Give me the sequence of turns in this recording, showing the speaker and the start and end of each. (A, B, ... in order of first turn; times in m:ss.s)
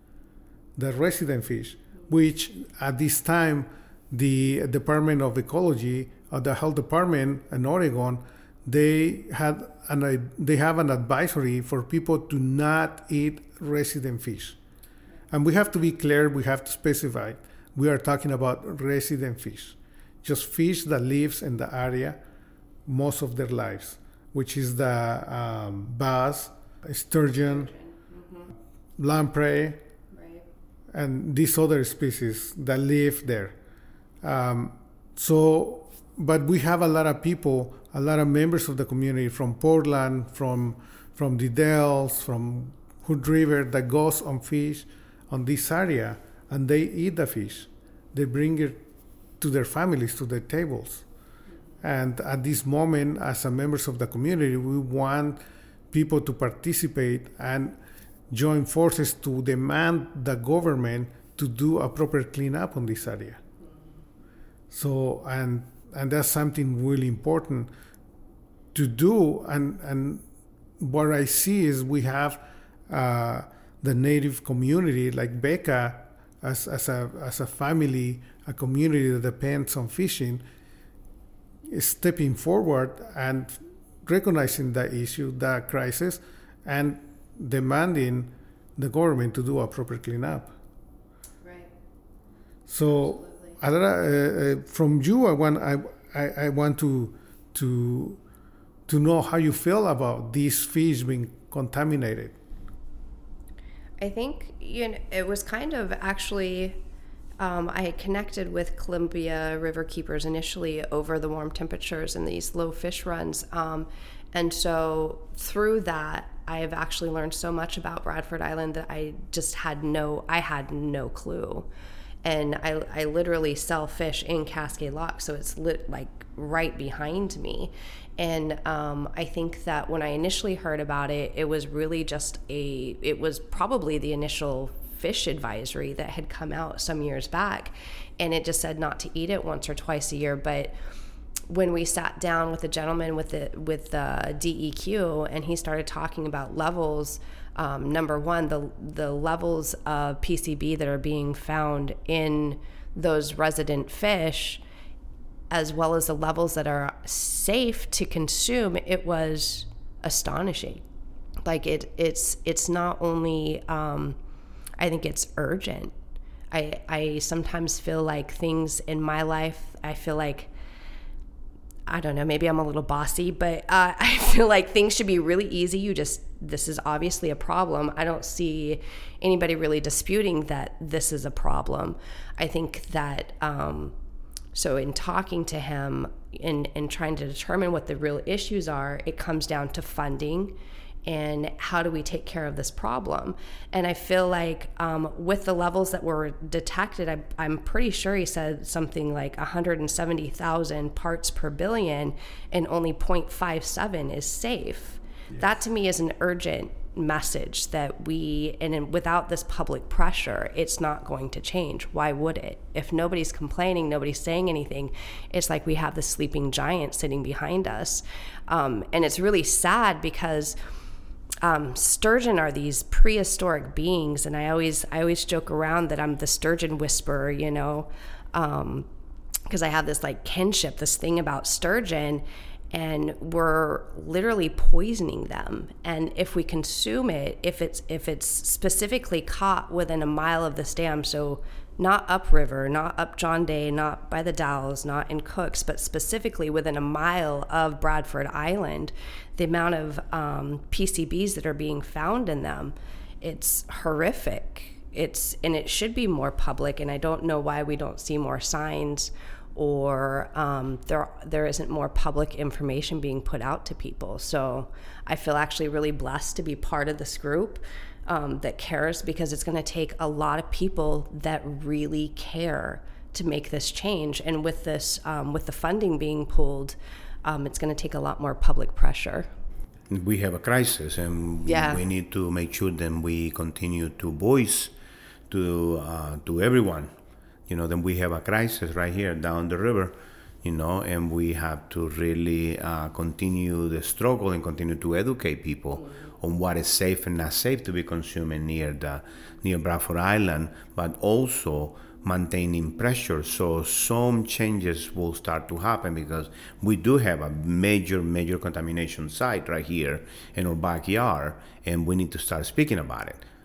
0:00.8-0:14.6 A
0:15.3-0:22.2 A
0:22.9-0:27.7 A
0:27.5-0:28.5 B
0:29.0-0:29.8 A
0:30.1-0:30.4 B
0:30.9-0:33.5 A
0:34.2-0:48.8 A
0:49.4-0:51.0 A
0:51.8-0:55.4 A
0:55.9-0:57.8 A
0:58.3-1:03.4 A
1:04.7-1:07.7 A
1:08.7-1:10.2 A
1:10.8-1:20.4 A
1:21.7-1:30.5 A
1:31.4-1:31.7 B
1:32.7-1:38.2 A
1:33.0-1:33.6 B
1:38.9-1:42.4 A
1:44.0-1:46.8 B
1:47.4-2:01.7 B
2:02.2-2:20.7 B
2:21.5-2:34.6 B
2:35.5-2:40.8 B
2:41.4-2:44.2 B
2:44.8-2:45.9 B
2:46.5-2:50.5 B
2:51.9-3:03.9 B
3:04.5-3:40.6 B
3:41.4-3:48.9 B
3:49.5-4:39.3 B
4:39.9-4:44.7 C
4:41.4-4:41.8 B
4:45.3-4:46.9 C
4:47.5-5:13.2 C